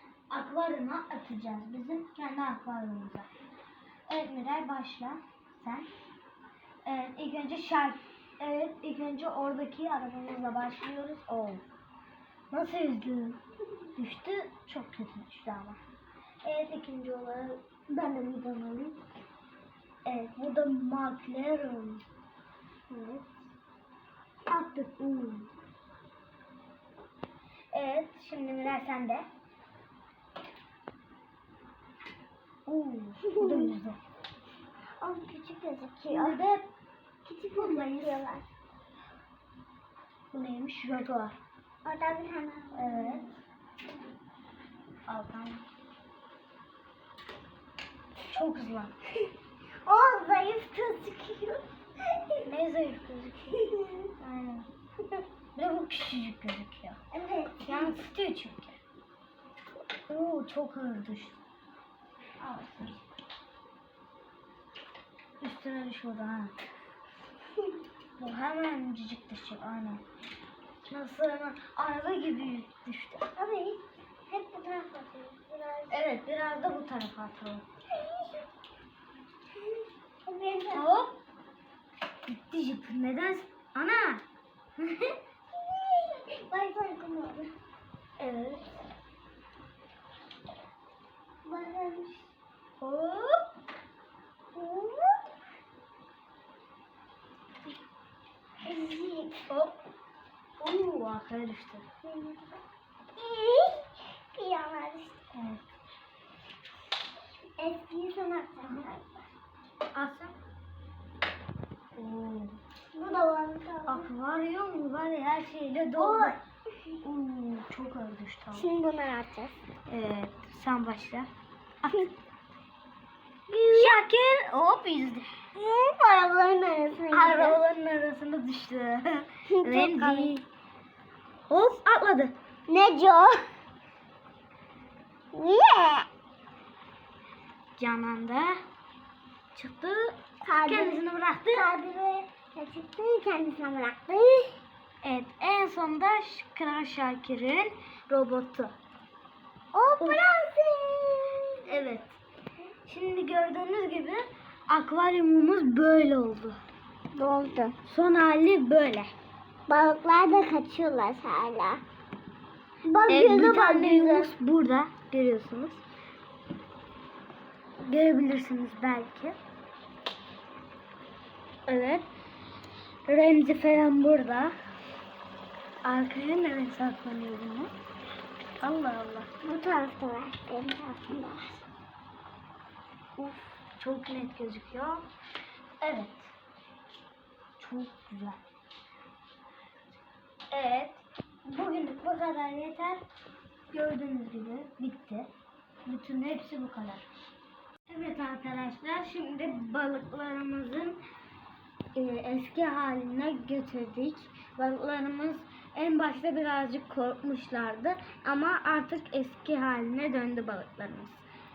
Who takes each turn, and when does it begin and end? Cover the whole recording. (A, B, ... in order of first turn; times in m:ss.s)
0:00.3-0:03.3 A
0:04.1-0:05.9 A
0:06.8-0:11.6 A
0:12.5-0:13.4 A
0:14.0-0:15.8 A
0:16.4-0:19.0 A
0:20.0-0:22.0 A
0:22.9-0:23.5 A
0:24.5-0:25.5 A
0:27.7-0:29.2 A
0:32.7-0:34.0 A
0:33.3-0:33.7 B
0:35.0-0:36.4 B
0:36.1-0:36.7 A
0:37.2-0:38.5 B
0:37.5-0:38.2 A
0:40.3-0:41.4 A
0:41.8-0:43.3 B
0:42.7-0:43.3 A
0:45.1-0:45.6 A
0:48.2-0:48.9 A
0:49.8-0:52.5 B
0:52.4-0:54.7 A
0:53.6-0:54.0 B
0:55.6-0:57.0 A
0:57.1-0:58.0 B
0:57.6-0:58.8 A
1:00.1-1:01.4 A
1:02.4-1:03.0 A
1:05.4-1:06.5 A
1:08.2-1:10.0 A
1:10.8-1:13.3 A
1:13.4-1:16.0 B
1:15.9-1:17.6 A
1:17.9-1:18.4 B
1:20.2-1:20.9 B
1:20.7-1:21.2 A
1:22.3-1:24.2 A
1:24.8-1:25.1 A
1:25.5-1:27.5 B
1:28.2-1:28.8 A
1:31.4-1:32.3 B
1:32.8-1:33.4 A
1:34.5-1:35.2 B
1:38.6-1:39.4 B
1:39.5-1:39.7 A
1:40.6-1:41.8 A
1:42.0-1:42.6 B
1:43.2-1:45.2 B
1:45.3-1:45.6 A
1:47.6-1:49.3 B
1:49.9-1:50.4 A
1:51.9-1:52.6 A
1:52.9-1:54.1 B
1:53.8-1:56.4 A
1:56.0-1:56.4 B
1:57.0-1:58.7 A
1:58.5-1:59.6 B
1:59.9-2:01.3 A
2:01.8-2:02.1 A
2:03.5-2:05.3 A
2:03.7-2:04.0 B
2:05.5-2:07.6 B
2:07.1-2:10.4 A
2:09.5-2:10.4 B
2:11.5-2:12.3 A
2:12.7-2:13.4 B
2:15.3-2:16.1 B
2:17.8-2:18.6 A
2:19.5-2:21.7 A
2:20.4-2:24.6 B
2:25.0-2:28.7 A
2:29.7-2:31.6 B
2:30.0-2:30.4 A
2:31.6-2:32.2 A
2:32.8-2:36.6 A
2:37.1-2:37.8 B
2:37.8-2:39.1 A
2:39.7-2:41.8 B
2:42.8-2:44.3 B
2:43.1-2:45.8 A
2:47.8-2:49.4 A
2:51.7-2:52.0 A
2:53.1-2:54.5 A
2:55.8-2:57.7 A
2:58.6-2:59.3 A
2:59.4-3:01.6 B
3:03.2-3:05.0 A
3:05.8-3:06.3 A
3:07.6-3:08.4 A
3:10.5-3:13.0 A
3:13.7-3:15.3 A
3:15.9-3:17.0 A
3:17.9-3:21.0 A
3:21.9-3:31.2 A